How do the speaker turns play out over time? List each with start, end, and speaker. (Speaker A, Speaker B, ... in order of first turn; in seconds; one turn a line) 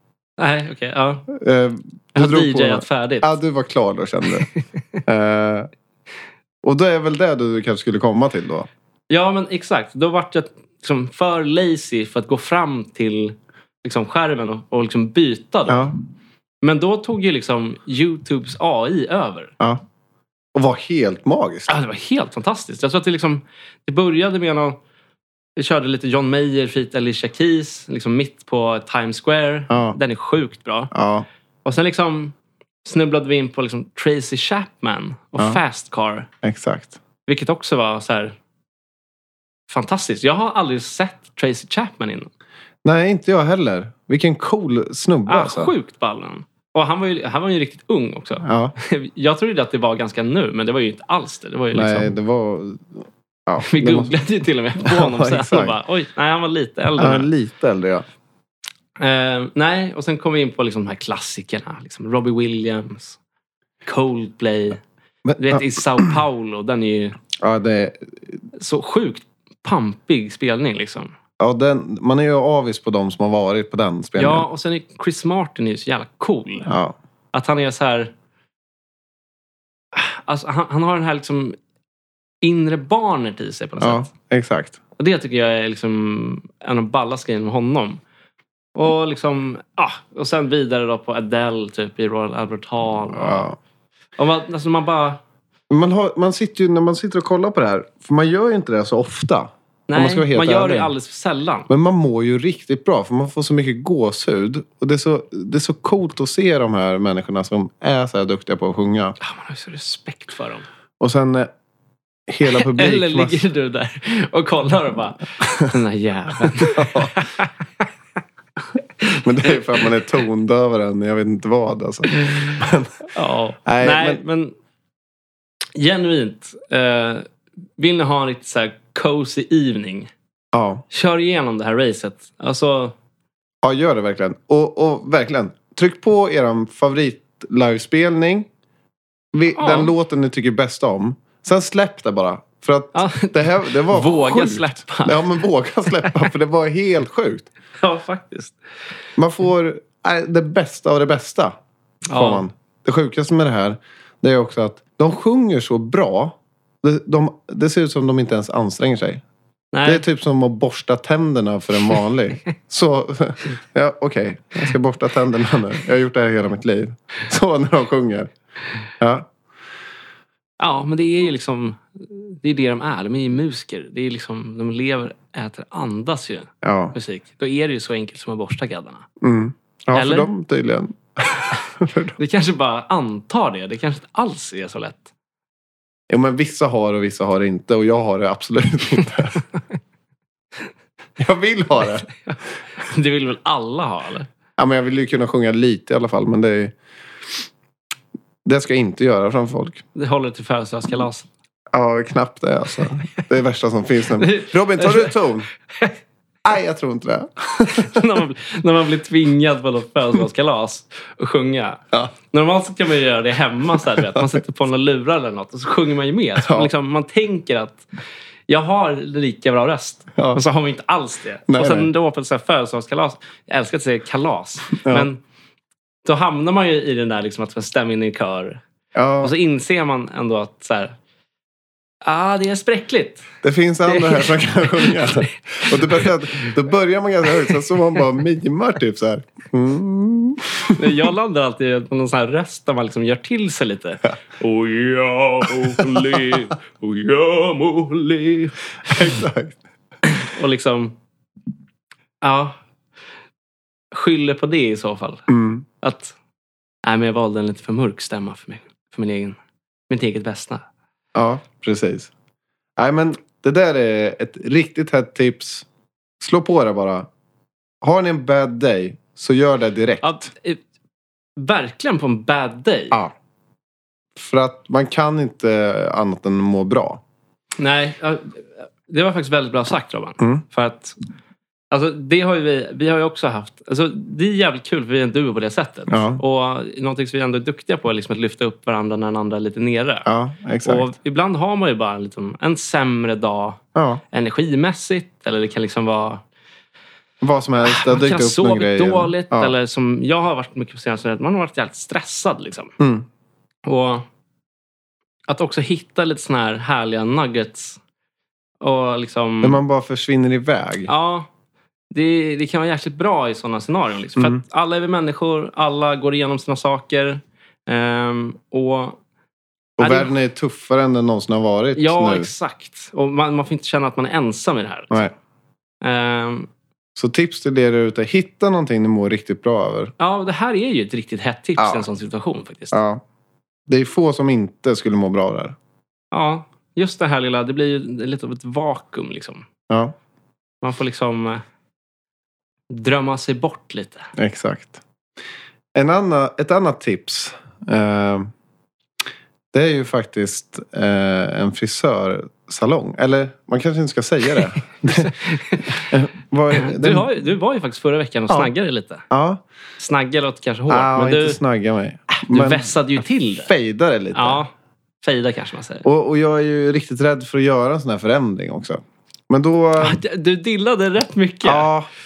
Speaker A: 0.4-1.3
Speaker B: 1.3-4.5
Speaker A: 2.1-3.4
Speaker B: 5.0-5.7
Speaker B: 6.6-8.7
Speaker A: 9.1-15.9
Speaker B: 15.7-15.9
Speaker A: 16.6-19.5
Speaker B: 20.5-21.7
Speaker A: 21.7-24.8
Speaker A: 25.6-30.9
Speaker B: 29.7-30.0
Speaker B: 30.9-31.2
Speaker A: 31.6-36.3
Speaker B: 36.4-37.0
Speaker A: 37.3-38.3
Speaker A: 39.7-42.3
Speaker B: 42.8-45.7
Speaker A: 45.3-52.1
Speaker B: 48.4-48.7
Speaker B: 51.7-54.1
Speaker A: 53.6-57.3
Speaker B: 54.8-55.8
Speaker B: 57.0-58.0
Speaker A: 59.0-63.2
Speaker A: 63.8-64.8
Speaker B: 65.2-66.0
Speaker A: 65.4-67.2
Speaker B: 67.4-68.1
Speaker A: 68.5-71.1
Speaker B: 71.4-74.5
Speaker A: 74.2-76.7
Speaker B: 76.7-77.0
Speaker A: 77.3-78.1
Speaker A: 79.9-81.6
Speaker A: 82.4-84.1
Speaker B: 83.8-84.8
Speaker A: 85.0-88.0
Speaker A: 88.7-93.5
Speaker B: 93.1-93.5
Speaker A: 94.2-95.2
Speaker B: 95.7-100.9
Speaker A: 99.9-101.7
Speaker B: 101.7-109.2
Speaker A: 109.2-110.7
Speaker B: 111.0-111.5
Speaker B: 112.3-113.4
Speaker A: 112.5-117.5
Speaker B: 116.5-117.2
Speaker B: 119.2-123.0
Speaker A: 122.1-122.6
Speaker A: 123.1-124.5
Speaker B: 123.7-124.2
Speaker A: 125.8-127.2
Speaker A: 127.8-130.1
Speaker B: 130.5-130.8
Speaker A: 130.9-132.9
Speaker B: 133.6-138.5
Speaker B: 139.3-147.5
Speaker A: 139.6-139.9
Speaker A: 142.9-145.3
Speaker A: 147.8-148.6
Speaker B: 149.2-151.6
Speaker A: 152.1-152.4
Speaker B: 152.1-159.2
Speaker A: 159.7-160.0
Speaker B: 159.8-168.3
Speaker B: 169.0-169.3
Speaker A: 170.6-179.1
Speaker B: 176.6-176.9
Speaker B: 179.2-182.2
Speaker A: 179.9-180.3
Speaker A: 182.2-185.1
Speaker B: 186.1-189.4
Speaker B: 191.2-192.1
Speaker A: 192.2-194.3
Speaker B: 194.6-196.7
Speaker B: 198.4-199.8
Speaker A: 199.9-201.3
Speaker B: 201.7-205.5
Speaker A: 204.2-205.1
Speaker B: 206.4-208.0
Speaker A: 207.7-217.8
Speaker B: 216.4-216.7
Speaker A: 218.5-225.2
Speaker B: 220.2-220.4
Speaker B: 221.5-221.9
Speaker B: 224.8-225.1
Speaker A: 226.0-228.6
Speaker B: 228.9-229.3
Speaker A: 229.2-230.9
Speaker A: 232.0-233.2
Speaker B: 233.4-241.1
Speaker A: 233.8-235.1
Speaker A: 235.7-236.5
Speaker A: 240.7-249.1
Speaker B: 245.8-246.3
Speaker B: 248.9-249.6
Speaker A: 250.1-250.9
Speaker A: 252.2-252.6
Speaker A: 253.9-255.3
Speaker B: 255.3-255.6
Speaker A: 255.8-256.1
Speaker A: 256.8-259.4
Speaker A: 259.9-260.6
Speaker B: 261.1-262.1
Speaker B: 262.8-265.6
Speaker B: 266.2-267.1
Speaker B: 267.8-270.3
Speaker A: 270.0-270.6
Speaker A: 271.4-273.0
Speaker B: 274.1-277.0
Speaker A: 277.6-281.0
Speaker B: 280.2-280.4
Speaker A: 281.7-290.1
Speaker B: 285.9-286.2
Speaker B: 290.1-290.9
Speaker A: 290.6-293.6
Speaker B: 293.7-294.0
Speaker A: 294.1-296.2
Speaker B: 297.2-299.5
Speaker A: 297.6-302.7
Speaker B: 302.8-303.1
Speaker A: 303.6-304.1
Speaker A: 305.3-307.8
Speaker A: 308.6-309.6
Speaker B: 309.4-310.9
Speaker A: 310.9-311.3
Speaker A: 311.9-319.0
Speaker B: 314.2-314.4
Speaker B: 319.8-322.3
Speaker A: 319.8-320.1
Speaker A: 321.8-325.1
Speaker A: 325.8-326.5
Speaker B: 326.9-329.9
Speaker A: 330.0-332.8
Speaker B: 331.6-331.8
Speaker B: 332.7-333.0
Speaker B: 333.7-335.6
Speaker A: 336.1-339.4
Speaker B: 339.7-339.9
Speaker A: 340.6-341.4
Speaker A: 342.7-344.1
Speaker B: 344.1-344.8
Speaker B: 345.7-348.3
Speaker B: 349.5-357.1
Speaker A: 355.0-355.9
Speaker A: 356.5-359.0
Speaker B: 359.1-359.4
Speaker A: 359.8-361.4
Speaker B: 360.7-364.4
Speaker A: 362.2-363.5
Speaker A: 364.1-364.5
Speaker A: 365.0-365.8
Speaker B: 365.8-370.0
Speaker A: 369.8-371.7
Speaker B: 371.4-371.9